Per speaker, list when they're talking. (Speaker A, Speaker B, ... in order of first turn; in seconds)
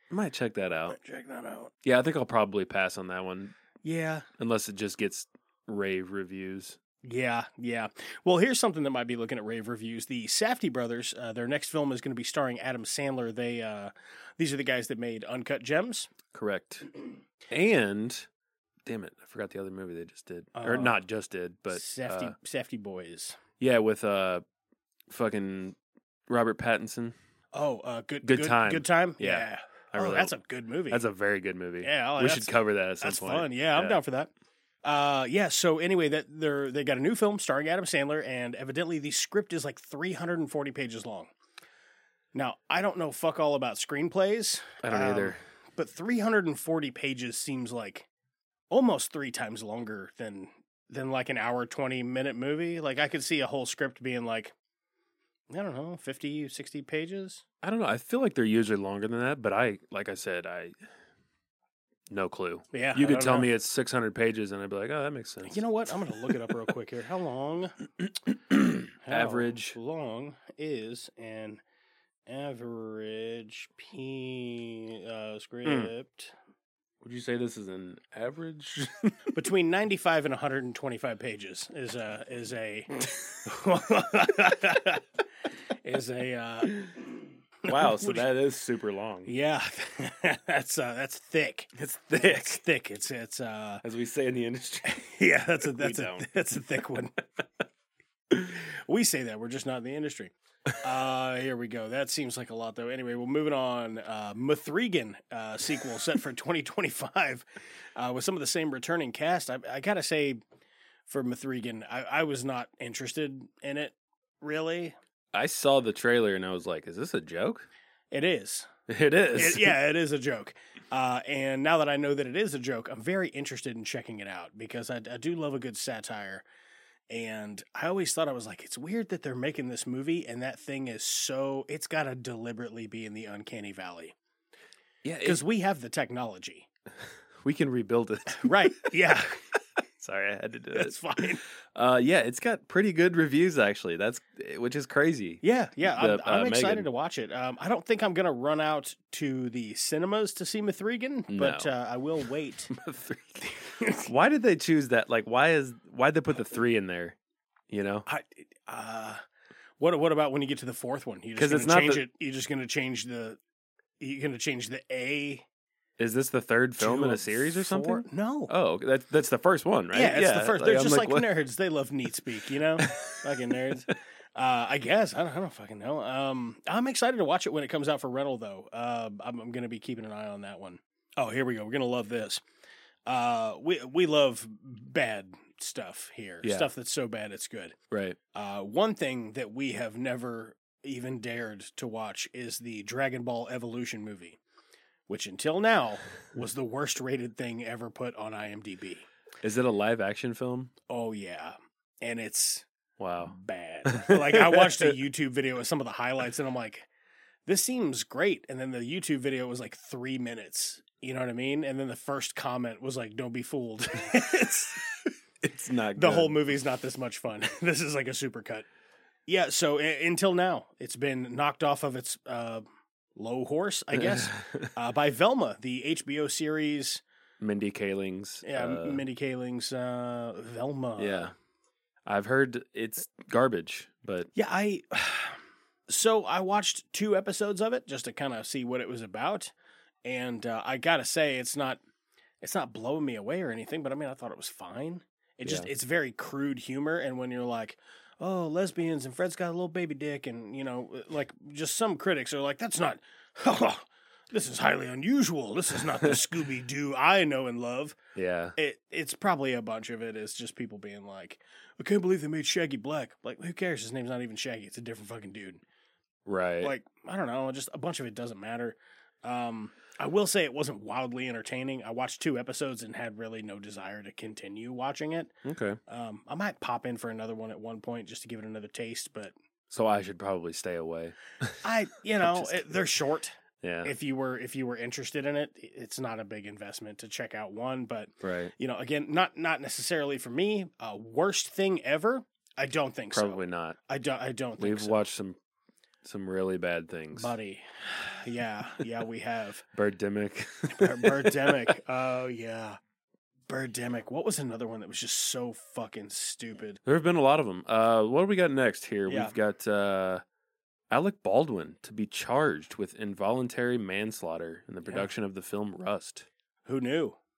Speaker A: 0.1-0.9, 1.8-3.5, 4.4-6.8, 16.3-16.9, 17.5-18.2, 18.9-22.3, 23.6-24.4, 25.1-25.8, 26.3-27.1, 28.2-30.3, 30.9-34.0, 44.8-45.4, 57.6-60.8, 62.1-65.6, 68.5-69.8, 75.6-75.9, 77.0-79.2, 87.7-89.3, 91.8-92.6, 93.8-95.0, 95.6-96.3, 115.3-117.6, 118.9-119.8, 135.0-135.4, 137.4-138.9, 140.0-140.9, 141.7-146.9, 151.3-151.7, 152.7-157.1, 157.7-158.1, 161.3-162.0, 166.0-171.3, 172.8-173.2, 186.4-186.7, 187.9-188.2, 199.4-200.7, 203.0-203.3, 203.9-204.4, 215.4-216.4, 224.2-224.6, 227.4-229.0, 231.0-231.3, 232.1-234.3, 245.4-245.7, 258.1-258.5, 266.2-266.7, 275.4-275.8, 279.7-281.6, 282.2-282.9, 283.6-283.9, 288.2-288.5, 293.1-293.8, 294.6-295.4, 296.0-297.3, 299.7-301.5, 306.9-310.2, 310.9-316.2
Speaker B: 0.9-1.7, 3.8-4.3, 7.0-16.1, 20.6-21.0, 21.7-23.4, 27.5-31.0, 31.8-34.3, 34.8-41.3, 42.3-48.1, 48.7-54.5, 55.5-57.4, 62.7-63.5, 65.5-67.7, 69.0-71.6, 72.3-76.3, 79.3-85.0, 85.8-87.1, 87.6-88.2, 89.2-93.8, 94.8-97.1, 98.9-110.4, 111.1-115.0, 118.1-118.7, 119.3-126.4, 127.1-134.1, 135.2-136.7, 138.4-139.3, 140.7-141.4, 145.4-152.7, 153.8-154.0, 158.1-159.2, 159.8-163.4, 164.0-165.4, 166.8-168.5, 169.9-182.4, 183.1-187.8, 188.3-194.4, 195.1-199.1, 200.9-202.7, 203.2-206.9, 207.4-214.8, 216.0-218.7, 219.3-222.6, 223.2-227.0, 228.4-231.3, 234.3-239.5, 240.0-241.8, 242.4-258.0, 258.6-265.6, 266.6-275.3, 275.9-279.3, 281.6-295.0, 297.1-299.6, 300.8-302.8, 303.5-306.8, 309.1-309.3, 316.6-317.2